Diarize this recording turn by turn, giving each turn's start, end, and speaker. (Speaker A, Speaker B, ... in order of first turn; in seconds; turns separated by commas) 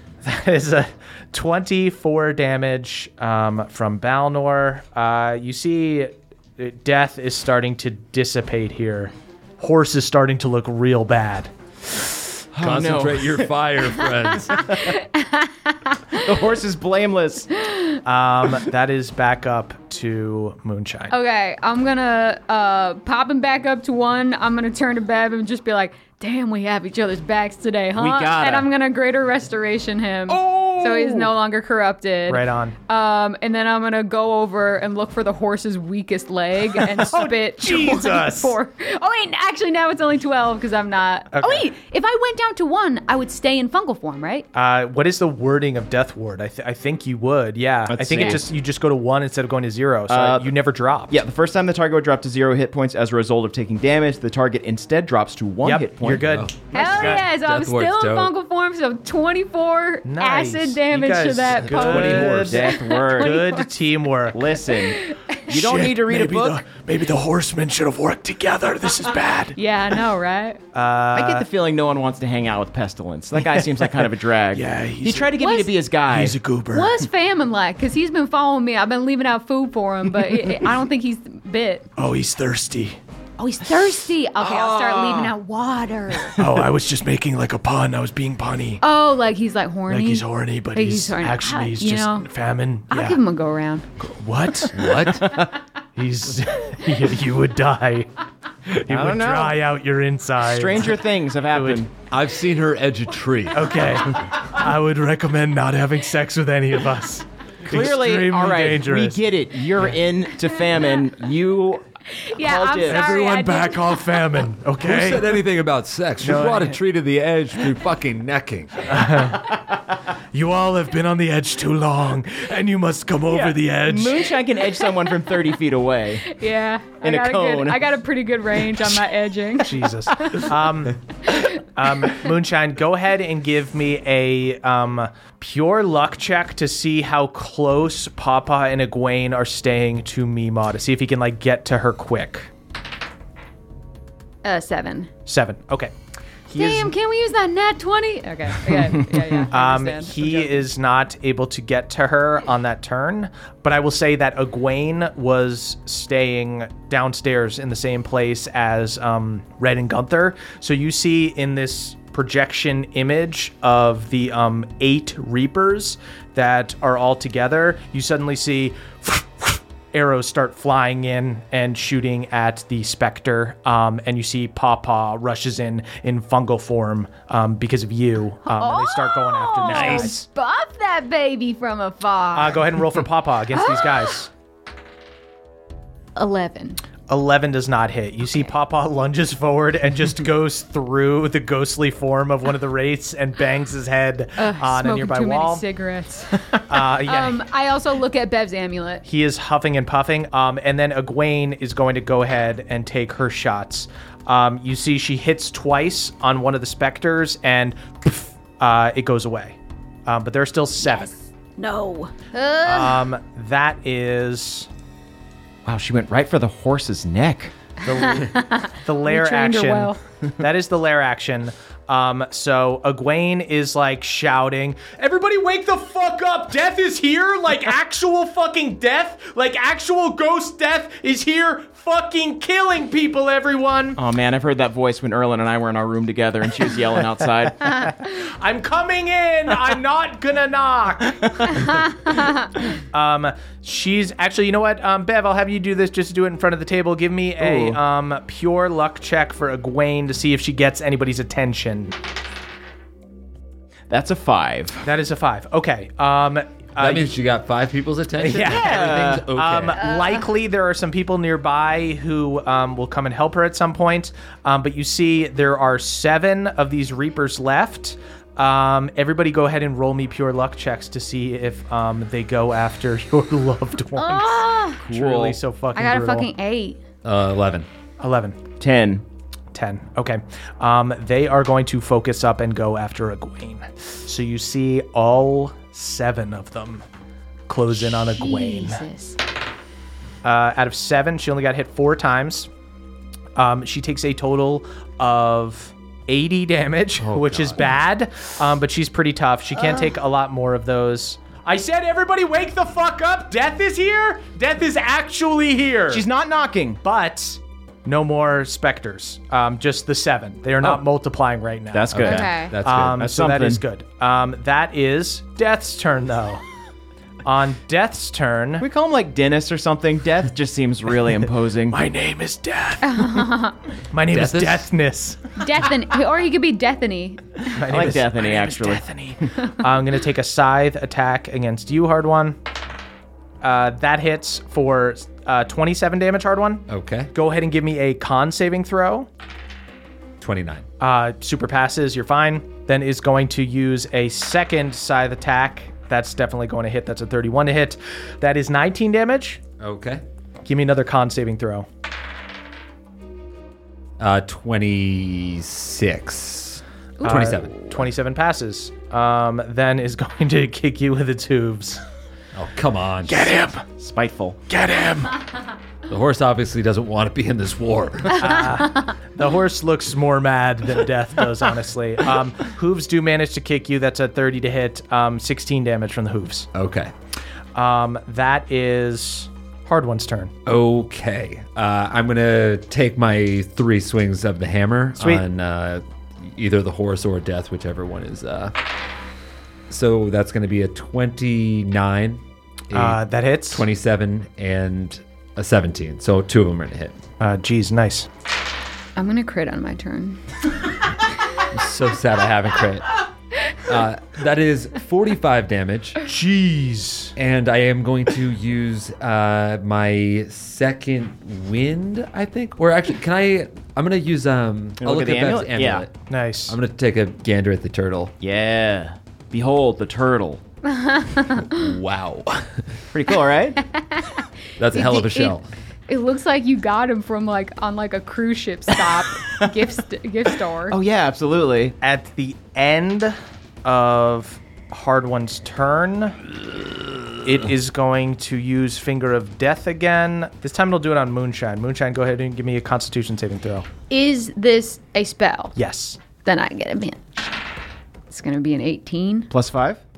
Speaker A: 0.2-11.5, Speaker B: 12.5-13.5, Speaker C: 12.6-14.9, Speaker D: 14.5-16.3, Speaker B: 16.1-17.5, Speaker D: 17.6-18.0, Speaker A: 18.0-21.1, Speaker D: 21.1-44.5, Speaker B: 27.9-28.7, Speaker B: 30.3-31.3, Speaker A: 32.3-32.7, Speaker A: 36.8-38.5, Speaker A: 41.3-41.7, Speaker A: 44.5-51.2, Speaker B: 47.9-48.5, Speaker B: 50.1-50.5, Speaker B: 51.1-56.3, Speaker A: 55.6-57.2, Speaker C: 56.2-58.3, Speaker D: 56.7-63.7, Speaker A: 60.0-64.5, Speaker C: 61.7-62.6, Speaker B: 61.9-63.5, Speaker B: 64.3-66.7, Speaker D: 64.7-65.5, Speaker E: 65.5-69.5, Speaker D: 69.5-70.6, Speaker A: 70.7-71.5, Speaker B: 71.1-76.4, Speaker A: 73.5-73.8, Speaker E: 74.5-75.3, Speaker D: 75.4-75.7, Speaker E: 76.1-76.8, Speaker D: 76.7-81.9, Speaker A: 82.0-82.6, Speaker E: 82.1-82.9, Speaker D: 83.4-86.4, Speaker B: 84.4-85.3, Speaker A: 86.4-86.6, Speaker E: 86.4-88.8, Speaker D: 88.8-92.3, Speaker E: 90.0-91.0, Speaker A: 90.0-93.2, Speaker D: 92.9-93.8, Speaker A: 94.0-94.9, Speaker C: 94.7-95.4, Speaker B: 94.8-95.5, Speaker A: 96.0-98.1, Speaker A: 98.8-101.8, Speaker B: 98.9-99.6, Speaker B: 100.4-101.9, Speaker C: 102.0-104.0, Speaker A: 103.5-109.2, Speaker B: 107.6-113.2, Speaker D: 112.1-114.2, Speaker E: 113.0-114.6, Speaker A: 113.0-113.3, Speaker A: 114.0-115.4, Speaker C: 114.8-119.1, Speaker A: 116.2-116.8, Speaker A: 118.9-119.6, Speaker A: 120.3-124.1, Speaker E: 121.0-121.7, Speaker E: 122.9-123.8, Speaker B: 123.3-126.2, Speaker D: 126.2-130.4, Speaker B: 127.0-127.9, Speaker A: 129.6-131.0, Speaker A: 131.5-142.5, Speaker D: 144.4-145.1, Speaker A: 145.2-145.9, Speaker A: 146.5-146.9, Speaker D: 146.5-150.7, Speaker A: 149.5-180.2, Speaker D: 178.4-182.8, Speaker A: 182.3-184.3, Speaker D: 183.5-184.2, Speaker D: 186.2-186.8, Speaker A: 187.1-195.6, Speaker D: 194.4-199.0, Speaker A: 196.7-197.4, Speaker A: 199.0-211.1, Speaker D: 210.8-213.1, Speaker A: 212.6-214.7, Speaker B: 215.6-217.5, Speaker A: 217.8-234.0, Speaker D: 217.9-220.0, Speaker B: 233.9-237.6, Speaker A: 238.0-251.9, Speaker B: 247.4-247.8, Speaker B: 253.9-254.8, Speaker A: 254.8-257.1, Speaker C: 256.8-259.8, Speaker A: 258.2-276.3, Speaker B: 258.3-259.3, Speaker D: 259.8-260.2, Speaker D: 273.9-274.8, Speaker B: 274.8-275.4, Speaker D: 275.7-276.8, Speaker C: 277.0-277.7, Speaker A: 278.0-278.4, Speaker B: 278.6-279.0, Speaker A: 279.5-286.8, Speaker A: 287.5-288.8, Speaker D: 288.1-289.2, Speaker A: 290.2-292.5, Speaker A: 293.4-306.0, Speaker C: 297.0-297.6, Speaker B: 305.9-306.8, Speaker A: 306.8-312.1, Speaker B: 311.7-312.3, Speaker C: 311.9-313.1, Speaker D: 312.0-312.5, Speaker A: 312.6-316.4, Speaker B: 312.9-313.6, Speaker A: 317.2-318.6, Speaker B: 318.6-321.8, Speaker A: 321.9-323.2, Speaker D: 322.8-323.6, Speaker A: 323.9-325.2, Speaker C: 324.1-324.7, Speaker D: 325.4-327.4, Speaker A: 327.5-332.4, Speaker B: 327.6-328.9, Speaker A: 333.4-339.1, Speaker C: 336.7-337.1, Speaker C: 340.2-340.6, Speaker A: 340.8-349.4, Speaker C: 349.6-350.0, Speaker A: 350.4-351.7, Speaker C: 354.0-357.7, Speaker D: 357.0-357.3, Speaker A: 357.0-361.8, Speaker C: 362.3-363.4, Speaker A: 363.1-363.6, Speaker B: 363.7-364.4, Speaker A: 364.5-365.1, Speaker C: 365.9-368.5, Speaker A: 368.2-376.5, Speaker C: 376.5-376.9, Speaker A: 377.5-380.3, Speaker C: 380.4-388.5, Speaker A: 385.0-385.2, Speaker C: 389.7-397.0, Speaker A: 392.7-393.7, Speaker A: 397.2-398.1, Speaker D: 398.9-400.2, Speaker C: 401.5-403.0, Speaker C: 403.6-406.0, Speaker A: 406.1-407.1, Speaker C: 407.1-415.9, Speaker B: 414.8-415.9, Speaker A: 416.1-416.6, Speaker C: 416.5-418.1, Speaker B: 418.2-420.4, Speaker D: 420.6-421.7, Speaker C: 421.4-422.8, Speaker B: 422.9-423.6, Speaker D: 423.6-425.3, Speaker C: 424.6-425.5, Speaker D: 425.9-430.8, Speaker B: 429.2-429.5, Speaker B: 430.7-431.8, Speaker A: 431.8-436.2, Speaker A: 437.2-443.6, Speaker D: 443.9-445.6, Speaker A: 445.6-446.0, Speaker D: 446.2-447.2, Speaker D: 448.1-449.3, Speaker B: 449.3-449.8